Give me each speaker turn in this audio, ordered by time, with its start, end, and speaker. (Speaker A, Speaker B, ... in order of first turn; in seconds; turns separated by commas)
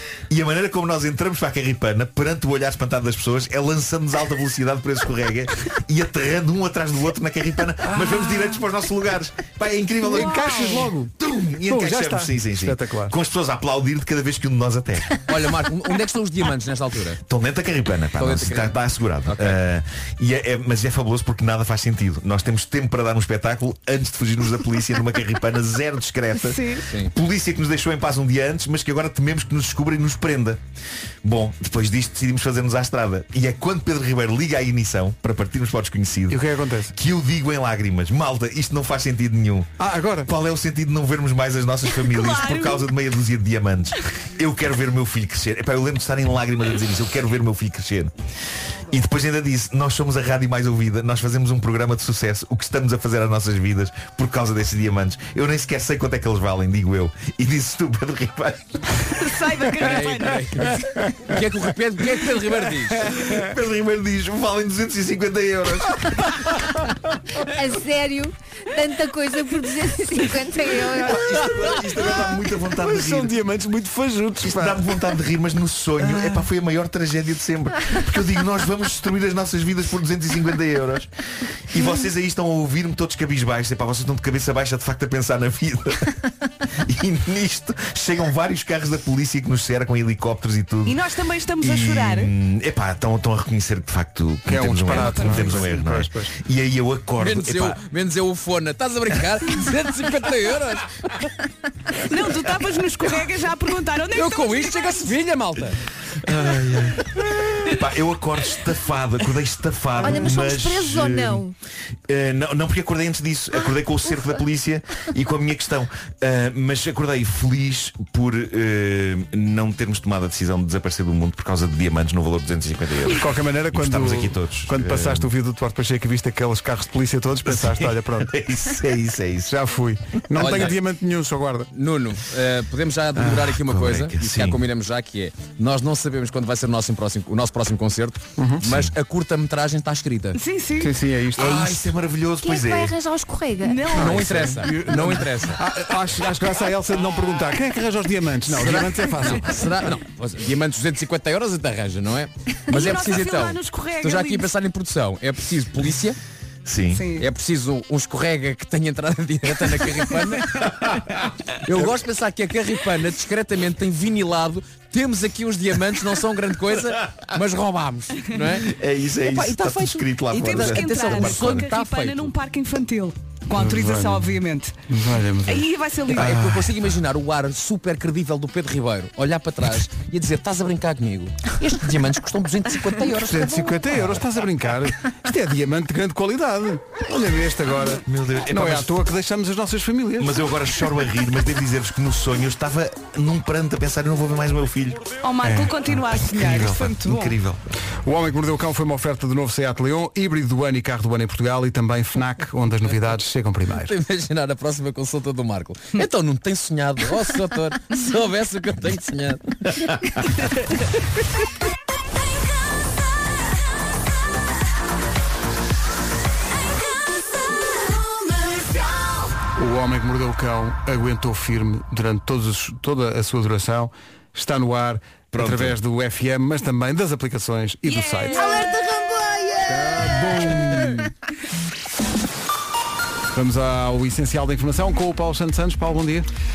Speaker A: 0.3-15.2, Speaker B: 7.8-8.6, Speaker B: 10.1-11.1, Speaker B: 11.7-13.2, Speaker C: 15.3-17.2, Speaker A: 17.3-30.6, Speaker C: 18.2-19.6, Speaker D: 26.4-26.8, Speaker C: 26.9-27.1, Speaker A: 31.2-36.4, Speaker B: 36.3-37.0, Speaker A: 36.9-39.7, Speaker B: 39.8-40.3, Speaker A: 40.2-48.1, Speaker D: 41.9-42.9, Speaker A: 48.9-59.0, Speaker D: 59.1-60.6, Speaker C: 59.8-63.1, Speaker A: 63.1-66.7, Speaker E: 67.4-71.7, Speaker B: 70.9-75.1, Speaker A: 71.1-73.4, Speaker A: 74.4-81.1, Speaker B: 76.0-76.5, Speaker A: 81.7-86.1, Speaker A: 86.8-91.1, Speaker D: 90.8-92.3, Speaker A: 91.6-97.8, Speaker B: 94.5-96.3, Speaker D: 94.9-95.8, Speaker C: 97.2-101.2, Speaker D: 102.0-105.0, Speaker C: 104.1-105.8, Speaker A: 106.2-111.4, Speaker E: 110.0-111.5, Speaker A: 112.1-125.3, Speaker E: 113.6-114.3, Speaker B: 123.1-128.4, Speaker A: 127.5-129.6, Speaker B: 129.4-131.7, Speaker C: 130.4-130.8, Speaker C: 131.7-140.4, Speaker A: 133.2-134.6, Speaker B: 138.4-138.7, Speaker A: 138.7-138.9, Speaker D: 140.3-141.0, Speaker B: 140.8-141.7, Speaker A: 141.4-143.0, Speaker E: 142.4-144.1, Speaker D: 143.6-144.3, Speaker C: 143.9-145.6, Speaker B: 143.9-149.7, Speaker C: 148.5-156.2, Speaker D: 152.7-154.5, Speaker A: 156.7-157.1, Speaker D: 156.9-157.3, Speaker C: 157.1-160.7, Speaker C: 161.7-172.3, Speaker A: 168.7-171.7, Speaker D: 170.4-174.8, Speaker B: 173.6-174.4, Speaker B: 174.9-176.5, Speaker D: 175.5-176.4, Speaker C: 176.1-183.9, Speaker B: 183.2-190.4, Speaker A: 188.1-189.0, Speaker A: 190.2-195.1, Speaker D: 195.2-197.4, Speaker B: 195.4-195.9, Speaker A: 196.2-197.6, Speaker B: 198.0-203.9, Speaker C: 203.8-210.0, Speaker B: 219.6-228.5, Speaker A: 225.3-225.8, Speaker D: 227.8-228.8, Speaker E: 228.3-231.1, Speaker B: 229.7-231.1, Speaker B: 233.3-236.3